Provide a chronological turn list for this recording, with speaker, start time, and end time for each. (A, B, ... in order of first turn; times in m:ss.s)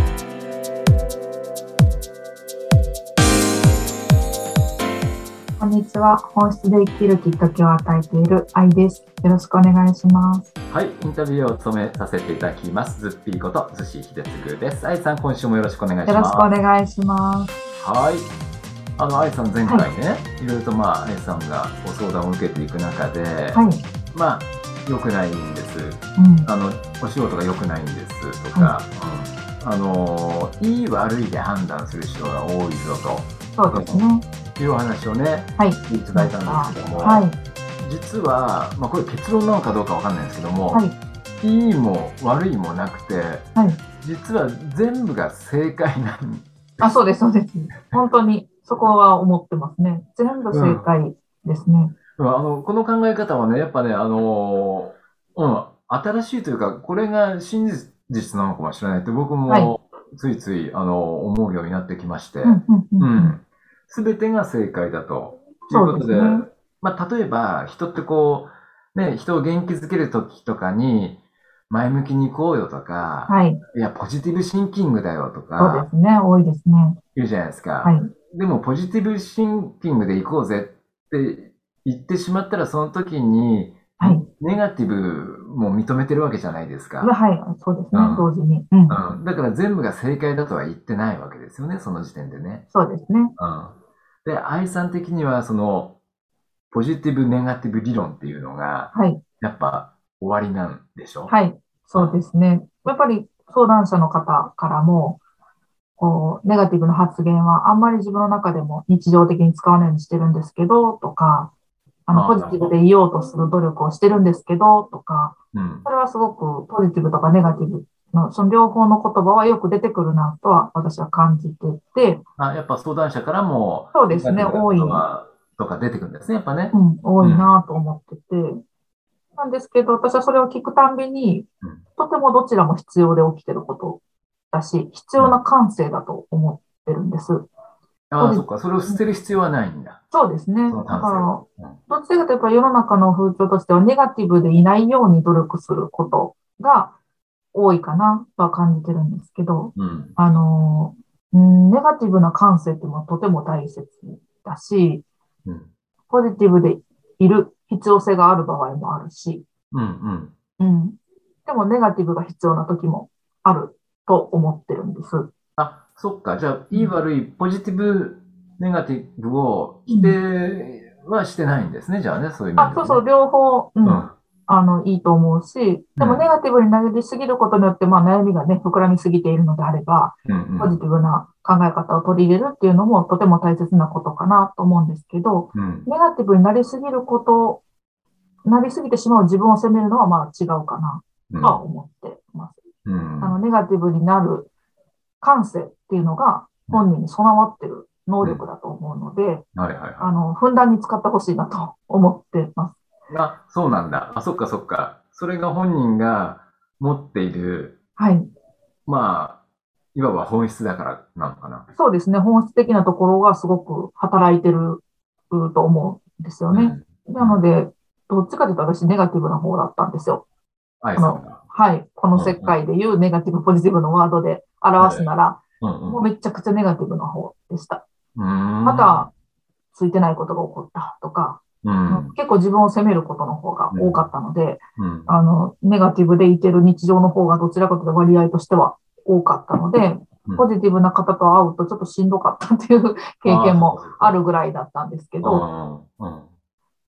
0:05.6-0:10.5 A
0:10.7-0:16.5 B
0:16.1-0:17.5 A
0:17.8-0:18.3 B
0:19.0-0:37.3 B
0:23.5-0:23.8 A
0:26.2-0:26.5 A
0:33.6-0:34.2 A
0:35.6-0:37.4 A
0:37.8-0:40.8 B
0:41.4-0:43.5 B
0:43.6-0:43.8 A
0:44.0-0:46.9 B
0:46.8-0:52.0 A
0:50.5-0:50.8 B
0:52.2-1:15.9 B
0:59.5-0:59.7 A
1:02.4-1:03.4 A
1:05.7-1:06.5 A
1:13.3-1:13.6 A
1:15.6-1:17.0 A
1:17.2-1:27.1 B
1:17.8-1:18.1 A
1:24.0-1:24.3 A
1:27.0-1:29.0 A
1:27.9-1:28.3 B
1:28.9-1:32.7 B
1:32.7-1:33.3 A
1:33.4-1:33.7 B
1:34.2-1:36.0 B
1:36.7-1:41.3 B
1:38.9-1:39.2 A
1:41.3-1:45.2 A
1:41.9-1:42.2 B
1:46.0-1:51.5 A
1:52.1-2:02.2 A
1:52.1-1:52.7 B
1:55.5-1:55.9 B
2:02.4-2:07.5 B
2:03.9-2:05.0 A
2:06.7-2:08.6 A
2:09.4-2:14.0 A
2:14.5-2:17.5 A
2:18.1-2:20.0 B
2:18.2-2:19.0 A
2:20.1-2:27.0 A
2:20.7-2:21.8 B
2:27.5-2:35.0 A
2:29.8-2:30.2 B
2:36.1-2:39.4 A
2:39.7-2:40.3 B
2:40.6-2:45.3 A
2:45.6-2:53.0 B
2:49.9-2:50.2 A
2:52.6-3:07.6 A
2:53.8-2:54.1 B
2:56.0-2:56.3 B
3:00.3-3:00.8 B
3:05.5-3:05.9 B
3:08.4-3:12.6 A
3:11.3-3:11.6 B
3:12.8-3:13.4 B
3:13.2-3:14.5 A
3:15.2-3:19.5 A
3:19.6-3:20.1 B
3:20.0-3:22.8 A
3:23.1-3:27.8 B
3:28.0-3:28.3 A
3:28.9-3:29.4 B
3:30.0-3:31.7 B
3:31.8-3:40.2 A
3:36.5-3:37.4 B
3:40.8-3:41.4 B
3:41.0-3:47.8 A
3:42.1-3:42.5 B
3:44.8-3:45.1 B
3:45.6-3:46.0 B
3:48.2-3:49.1 B
3:48.6-3:49.1 A
3:49.7-4:05.4 A
3:51.6-3:52.2 B
3:53.7-3:54.1 B
3:54.8-3:55.2 B
4:03.2-4:04.2 B
4:05.2-4:06.3 B